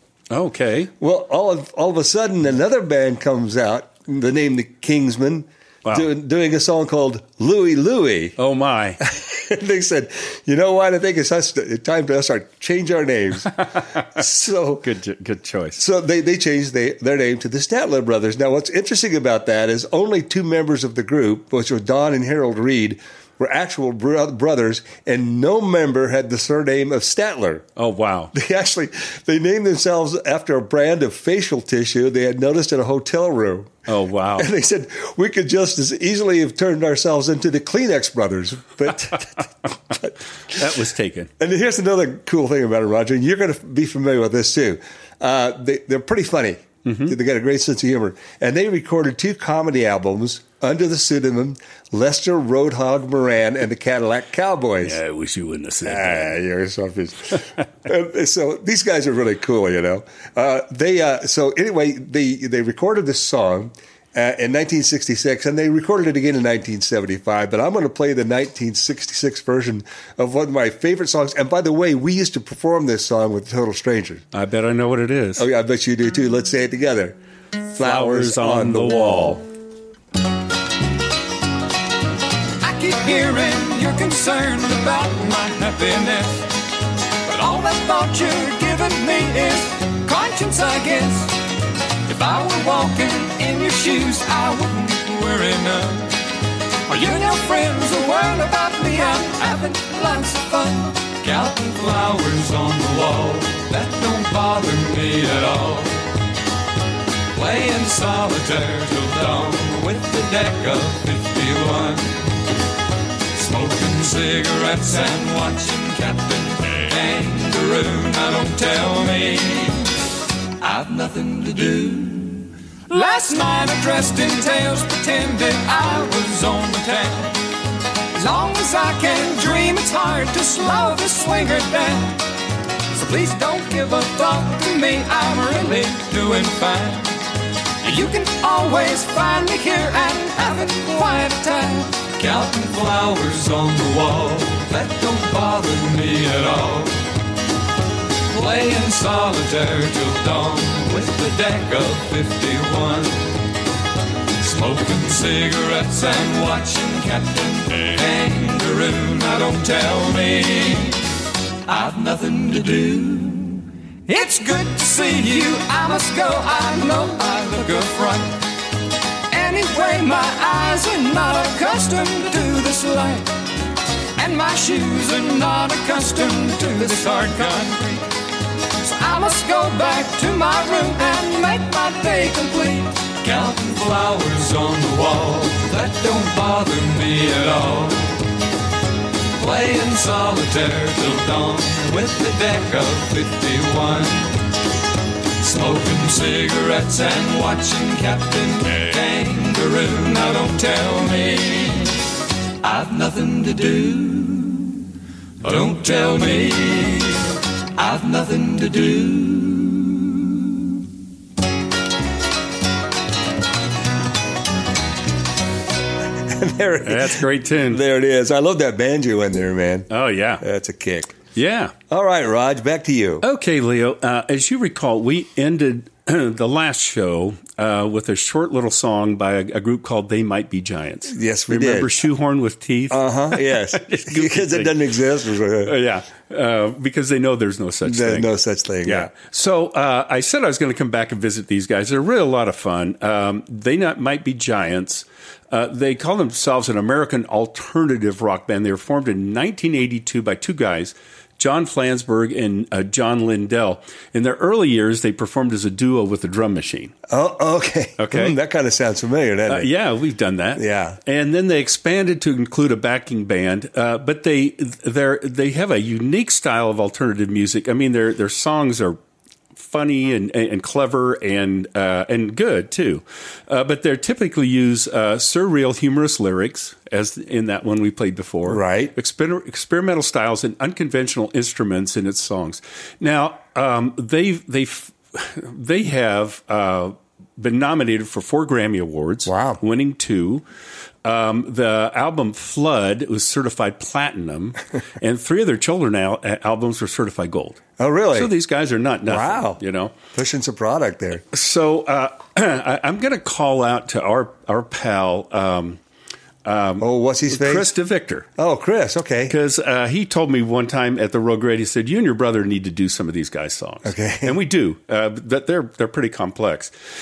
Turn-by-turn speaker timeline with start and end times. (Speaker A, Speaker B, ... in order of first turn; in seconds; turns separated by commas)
Speaker A: 0.3-0.9, Speaker B: 1.0-8.4, Speaker A: 8.4-9.0, Speaker B: 9.0-14.9, Speaker A: 14.8-15.8, Speaker B: 15.8-27.7, Speaker A: 27.8-28.3, Speaker B: 28.3-33.9, Speaker A: 33.9-34.5, Speaker B: 34.4-39.5, Speaker A: 40.5-41.3, Speaker B: 41.4-55.0, Speaker A: 46.9-47.1, Speaker A: 54.8-56.4, Speaker B: 55.8-74.3, Speaker A: 74.3-75.5, Speaker B: 75.4-77.2, Speaker B: 77.7-79.4, Speaker A: 77.7-79.5, Speaker C: 82.6-86.5, Speaker C: 87.3-91.3, Speaker C: 92.1-96.1, Speaker C: 96.9-106.0, Speaker C: 107.3-112.2, Speaker C: 113.3-119.9, Speaker C: 120.6-127.4, Speaker C: 128.2-132.2, Speaker C: 132.9-137.1, Speaker C: 137.8-147.0, Speaker C: 148.3-153.2, Speaker C: 154.4-161.0, Speaker C: 161.7-168.4, Speaker C: 169.3-173.3, Speaker C: 174.2-178.1, Speaker C: 178.8-188.2, Speaker C: 189.4-194.3, Speaker C: 195.4-201.9, Speaker C: 202.6-204.8, Speaker C: 205.4-207.2, Speaker C: 207.8-210.1, Speaker B: 216.2-221.2, Speaker A: 216.8-217.8, Speaker A: 219.9-220.4, Speaker A: 221.3-221.7, Speaker B: 221.9-223.2, Speaker A: 223.2-234.8, Speaker B: 231.1-232.0, Speaker B: 232.9-235.8, Speaker A: 235.6-238.3, Speaker B: 237.8-239.1, Speaker A: 238.8-256.9, Speaker B: 257.1-259.7, Speaker A: 258.0-258.4, Speaker A: 259.5-269.0, Speaker B: 260.6-261.0, Speaker A: 269.6-290.4, Speaker B: 278.5-278.9, Speaker B: 289.3-289.6, Speaker A: 291.1-297.6, Speaker B: 297.8-298.3, Speaker A: 298.1-299.9, Speaker B: 299.1-299.6, Speaker B: 300.1-301.3, Speaker A: 301.3-305.8, Speaker A: 306.4-308.3, Speaker B: 306.8-307.7, Speaker B: 308.4-309.4, Speaker A: 309.3-316.7, Speaker B: 313.9-314.4